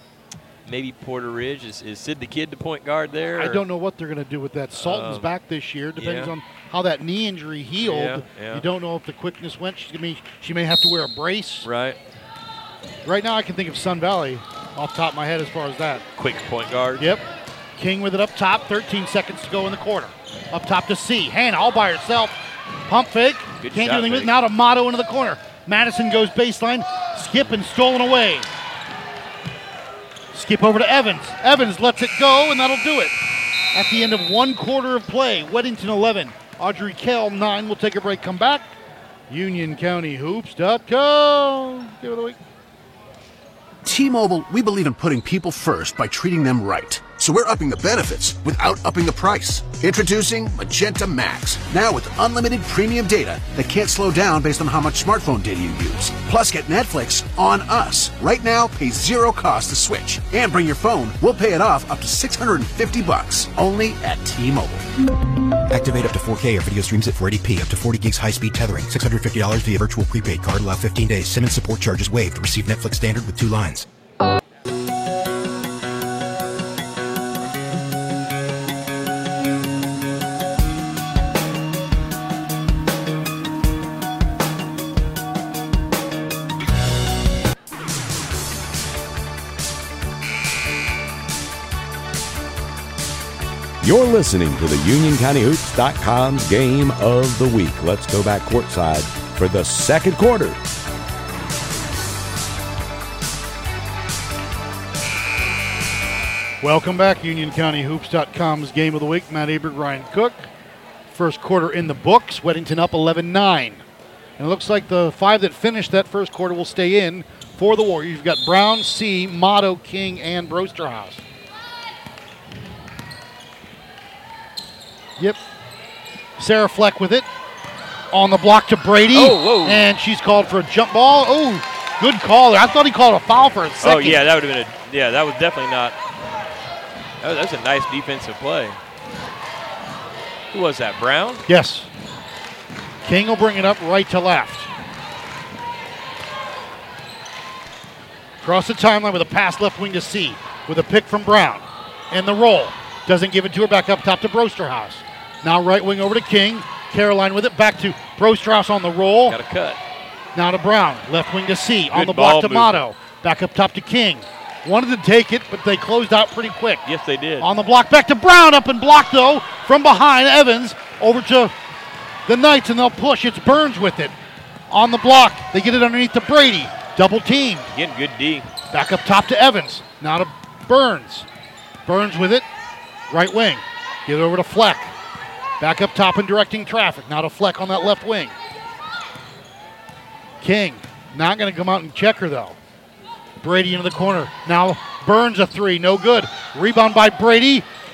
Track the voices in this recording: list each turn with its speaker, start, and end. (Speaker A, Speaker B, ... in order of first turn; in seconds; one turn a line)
Speaker A: 0.7-3.6
Speaker B: 3.4-11.7
Speaker A: 4.8-5.3
Speaker A: 6.0-6.3
Speaker A: 7.8-8.7
Speaker A: 11.6-12.0
Speaker B: 13.1-16.0
Speaker A: 16.2-17.1
Speaker B: 17.0-17.2
Speaker B: 17.8-28.5
Speaker A: 23.6-24.4
Speaker B: 30.3-33.1
Speaker B: 33.7-38.8
Speaker B: 39.3-42.4
Speaker C: 43.8-64.8
Speaker D: 65.7-73.9
Speaker E: 93.8-100.6
Speaker B: 106.6-110.5
Speaker B: 111.1-113.8
Speaker B: 114.4-121.2
Speaker B: 126.4-127.3
Speaker B: 128.1-134.2
Speaker A: 129.1-129.9
Speaker A: 133.8-136.0
Speaker A: 137.2-138.8
Speaker A: 140.5-141.4
Speaker B: 141.5-141.9
Speaker B: 143.0-144.7
Speaker B: 148.4-159.4
Speaker A: 159.3-159.8
Speaker B: 160.3-166.8
Speaker A: 161.9-162.8
Speaker A: 166.9-167.5
Speaker B: 167.4-171.5
Speaker B: 172.3-174.2
Speaker B: 174.7-177.7
Speaker A: 177.7-178.5
Speaker B: 178.7-181.3
Speaker B: 181.9-182.5
Speaker B: 183.1-184.9
Speaker B: 185.6-188.3
Speaker B: 190.4-192.6
Speaker B: 193.4-197.7